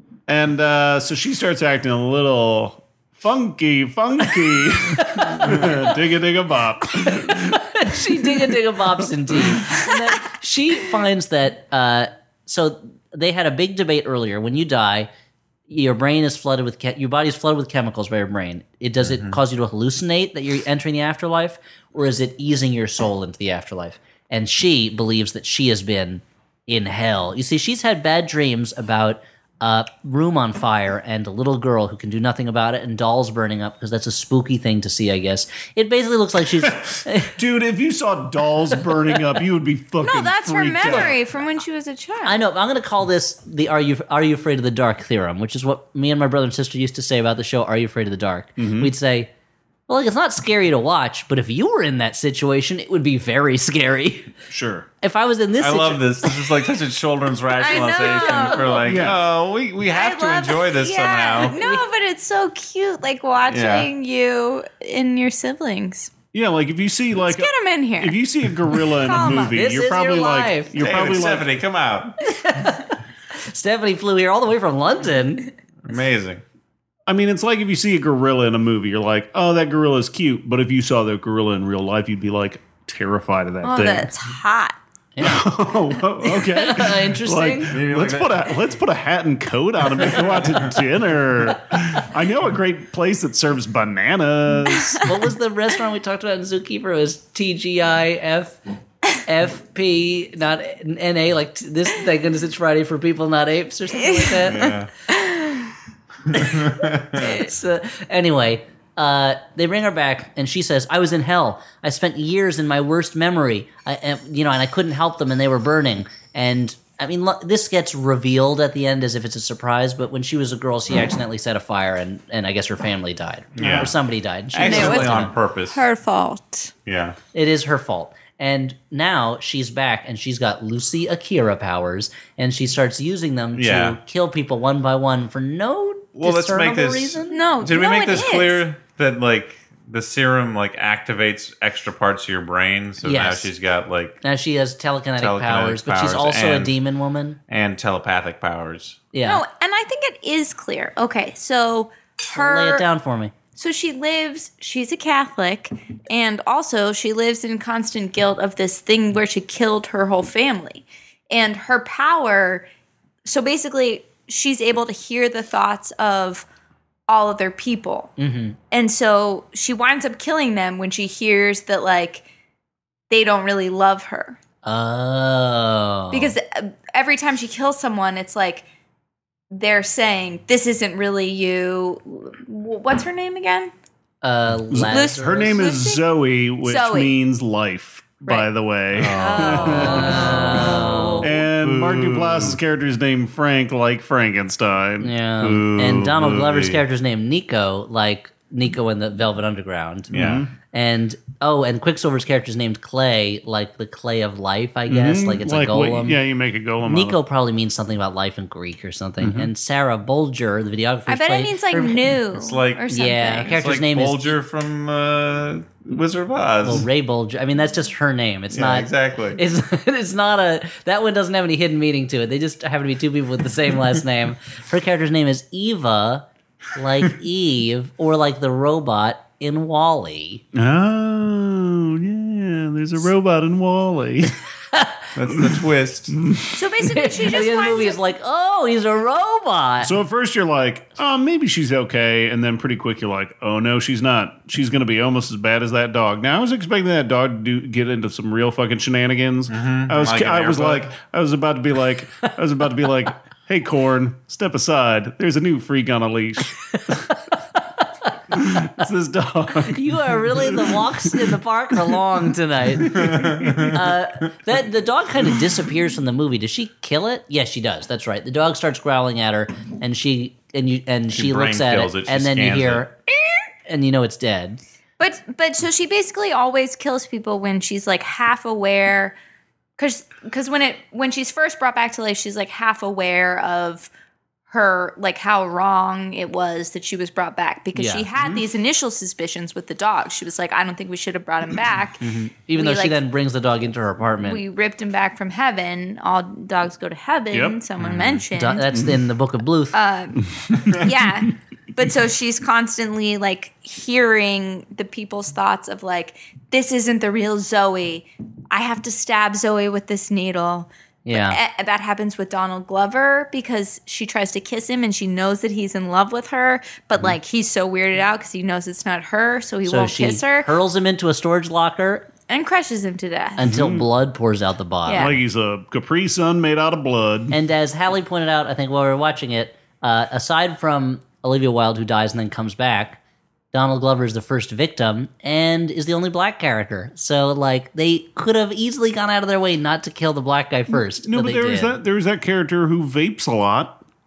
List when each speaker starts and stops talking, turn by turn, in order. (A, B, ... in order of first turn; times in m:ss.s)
0:00.3-0:07.6 A
0:04.9-0:05.7 B
0:07.0-0:15.1 B
0:08.2-0:08.5 A
0:09.3-0:09.6 A
0:15.7-0:37.3 B
0:19.0-0:19.4 C
0:37.4-0:41.2 A
0:40.0-0:42.4 D
0:40.8-0:41.1 B
0:42.2-0:49.3 B
0:48.6-0:48.9 A
0:49.9-0:54.3 B
0:54.5-0:54.9 A
0:55.0-0:56.6 B
0:55.6-1:01.6 C
0:57.6-0:59.1 D
0:57.9-0:58.8 B
0:58.8-0:59.2 A
0:59.8-1:06.1 D
1:01.5-1:01.8 B
1:03.5-1:03.9 C
1:06.3-1:11.5 A
1:07.2-1:08.2 D
1:08.8-1:09.6 D
1:09.5-1:10.8 B
1:10.8-1:12.3 C
1:12.2-1:15.5 B
1:15.8-1:16.4 C
1:17.1-1:24.1 A
1:23.6-1:24.8 D
1:25.2-1:25.5 B
1:25.2-1:35.0 A
1:26.2-1:27.7 B
1:27.7-1:28.5 C
1:35.0-1:38.6 B
1:39.2-1:44.7 B
1:44.4-1:44.9 C
1:45.1-1:45.7 D
1:46.3-1:47.3 C
1:46.3-2:05.3 B
1:47.2-1:47.5 D
2:03.6-2:03.9 C
2:03.6-2:03.9 A
2:04.5-2:05.8 C
2:04.6-2:06.7 D
2:06.9-2:07.2 C
2:07.3-2:17.4 B
2:13.5-2:14.0 C
2:16.2-2:24.2 C
2:17.3-2:18.6 D
2:23.0-2:23.5 B
2:24.2-2:27.4 B
2:25.2-2:26.8 C
2:27.5-2:29.0 C
2:29.1-2:29.4 B
2:29.2-2:32.8 D
2:32.3-2:33.3 B
2:33.6-2:42.6 D
2:43.2-2:46.4 D
2:47.1-2:48.1 D
2:48.2-2:48.6 B
2:48.7-2:52.2 D
2:53.1-2:54.4 D
2:54.6-2:56.3 B
2:56.1-2:58.6 D
2:59.5-3:03.7 D
3:04.2-3:05.6 B
3:04.7-3:10.6 A
3:04.9-3:06.0 D
3:06.6-3:07.1 D
3:08.9-3:09.9 C
3:09.1-3:11.3 D
3:09.7-3:11.3 B
3:11.2-3:16.1 A
3:11.6-3:12.6 C
3:15.0-3:20.1 B
3:15.8-3:16.8 C
3:20.1-3:20.4 C
3:20.1-3:20.5 A
3:20.7-3:26.2 B
3:24.9-3:27.2 A
3:26.8-3:32.0 B
3:29.2-3:29.5 A
3:31.1-3:33.6 D
3:32.3-3:32.8 C
3:32.9-3:34.3 B
3:33.4-3:36.9 C
3:36.6-3:50.4 B
3:38.5-3:39.4 C
3:50.5-3:54.4 A
3:54.7-3:55.1 B
3:55.2-3:56.2 C
3:56.1-3:56.5 A
3:56.5-3:58.0 D
3:56.9-3:59.9 B
3:59.8-4:16.9 A
4:09.5-4:10.9 C
4:17.6-4:18.1 B
4:18.3-4:22.0 A
4:19.6-4:33.0 B
4:22.8-4:23.7 A
4:23.0-4:23.7 C
4:31.1-4:32.8 C
4:33.6-4:34.6 B
4:35.0-4:39.1 D
4:39.8-4:43.9 D
4:44.5-4:52.0 D
4:47.7-4:48.1 B
4:52.0-4:54.4 B
4:52.5-4:53.0 D
4:54.2-4:58.7 D
4:57.3-4:57.6 A
4:57.8-4:58.2 C
4:58.4-4:59.8 B
4:59.7-5:20.5 D
5:00.5-5:00.8 A
5:11.0-5:11.4 B
5:19.6-5:22.1 B
5:22.3-5:23.4 D
5:23.4-5:25.1 B
5:23.4-5:23.9 A
5:24.9-5:25.1 D
5:24.9-5:27.4 A
5:27.3-5:33.0 B
5:33.5-5:41.8 B
5:41.0-5:43.8 A